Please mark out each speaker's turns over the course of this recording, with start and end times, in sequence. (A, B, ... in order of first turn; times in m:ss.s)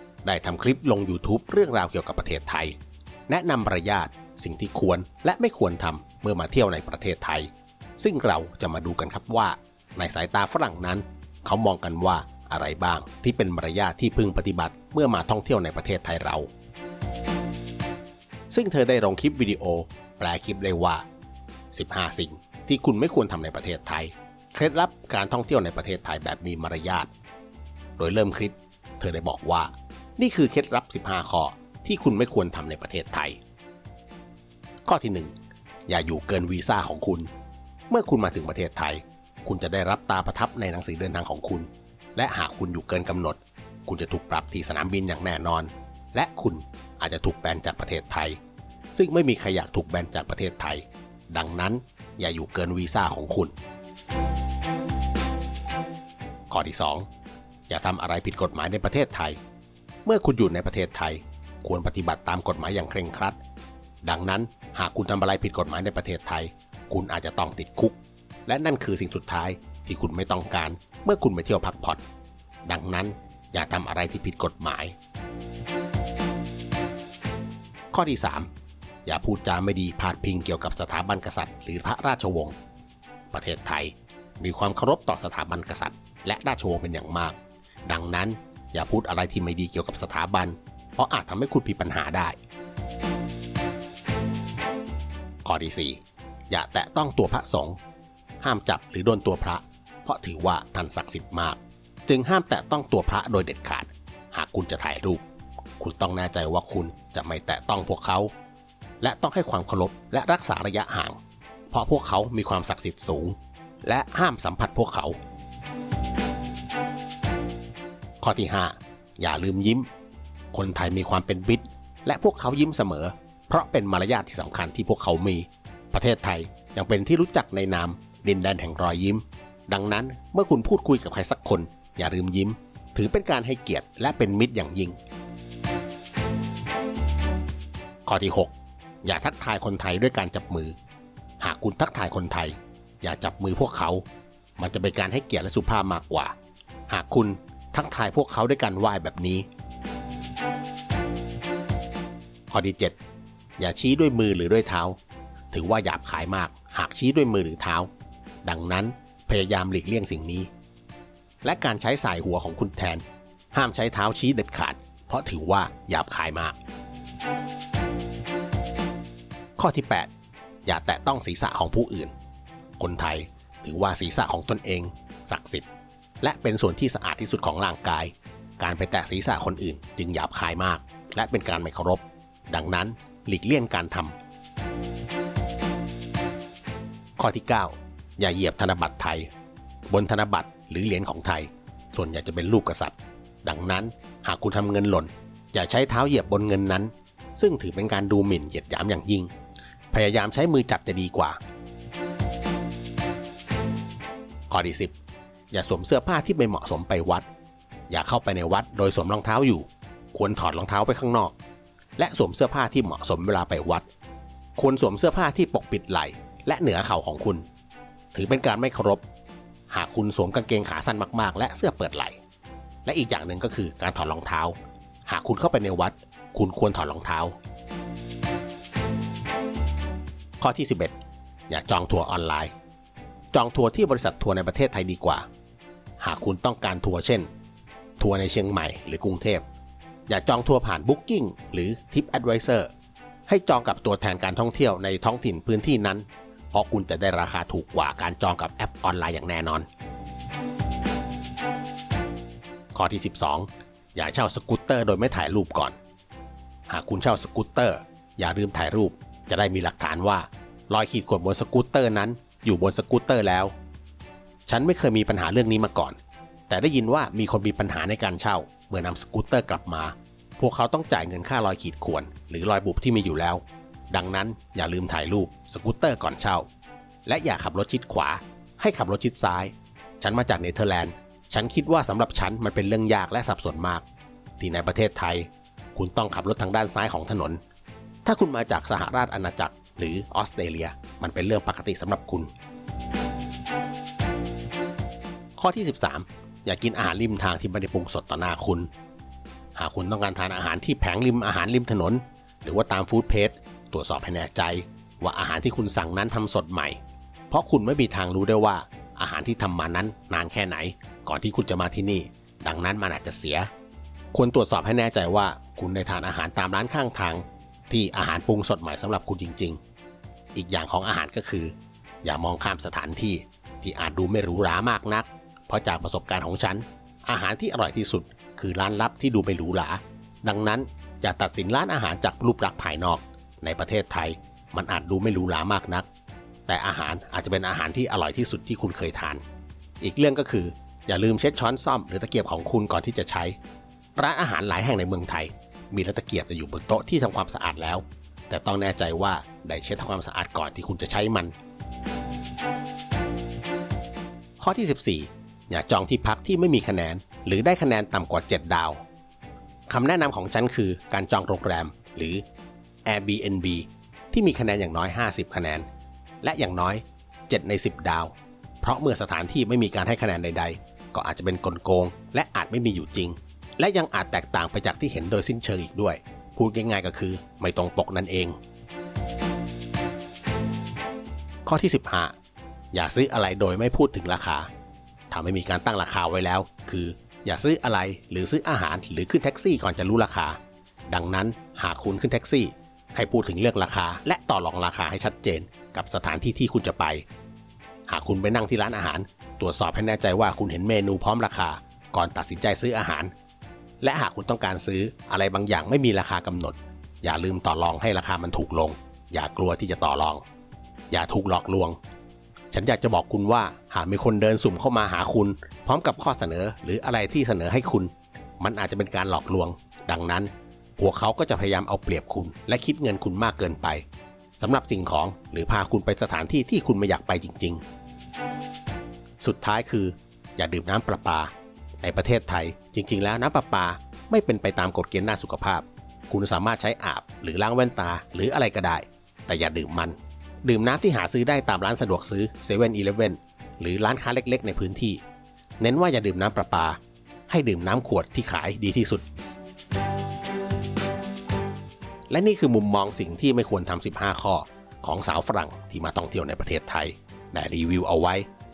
0:00.2-0:02.8 A
0:03.3-0:16.5 A
0:18.5-0:21.0 A
0:21.7-0:27.1 A
0:28.0-0:33.4 A
0:34.8-0:35.3 A
0:35.9-0:37.3 A
0:37.9-0:48.4 A
0:48.9-0:53.5 A
0:56.5-0:57.1 A
0:57.7-0:59.4 A
1:00.0-1:03.4 A
1:04.0-1:12.0 A
1:12.6-1:14.9 A
1:17.9-1:18.5 A
1:19.0-1:22.5 A
1:23.3-1:32.4 A
1:35.4-1:37.8 A
1:38.4-1:45.2 A
1:45.8-1:48.3 A
1:49.0-1:51.2 A
1:51.7-1:55.2 A
1:58.2-1:59.9 A
2:00.5-2:15.0 A
2:18.0-2:20.8 A
2:21.4-2:24.0 A
2:24.6-2:26.3 A
2:26.9-2:29.4 A
2:32.5-2:33.0 A
2:33.6-2:35.0 A
2:35.5-2:37.9 A
2:38.4-2:40.5 A
2:41.4-2:46.6 A
2:49.6-2:50.1 A
2:50.6-2:52.1 A
2:52.8-2:55.6 A
2:56.2-3:04.1 A
3:07.2-3:09.3 A
3:09.9-3:19.3 A
3:19.9-3:21.4 A
3:24.5-3:24.9 A
3:25.5-3:27.3 A
3:27.9-3:31.3 A
3:32.0-3:33.9 A
3:34.6-3:37.4 A
3:38.1-3:39.0 A
3:39.7-3:42.2 A
3:42.8-3:47.4 A
3:50.4-3:50.9 A
3:51.5-3:52.5 A
3:53.3-3:55.2 A
3:56.0-3:57.3 A
3:58.0-3:59.4 A
4:00.1-4:02.7 A
4:03.3-4:09.7 A
4:12.7-4:15.8 A
4:16.7-4:23.5 A
4:24.4-4:26.0 A
4:26.5-4:36.4 A
4:37.0-4:43.8 A
4:44.4-4:47.4 A
4:48.0-4:52.3 A
4:55.4-4:58.7 A
4:59.5-5:06.8 A
5:07.3-5:13.5 A
5:14.1-5:19.6 A
5:20.3-5:35.9 A
5:36.5-5:39.2 A
5:39.8-5:43.4 A
5:44.0-5:51.3 A
5:54.4-5:58.8 A
5:59.7-6:02.2 A
6:02.8-6:05.6 A
6:06.2-6:18.4 A
6:21.4-6:22.1 A
6:22.7-6:24.5 A
6:25.1-6:30.4 A
6:30.9-6:37.0 A
6:37.9-6:43.1 A
6:43.8-6:50.2 A
6:50.9-6:51.8 A
6:52.5-7:03.8 A
7:04.4-7:07.6 A
7:09.2-7:25.0 A
7:25.6-7:29.0 A
7:32.1-7:38.3 A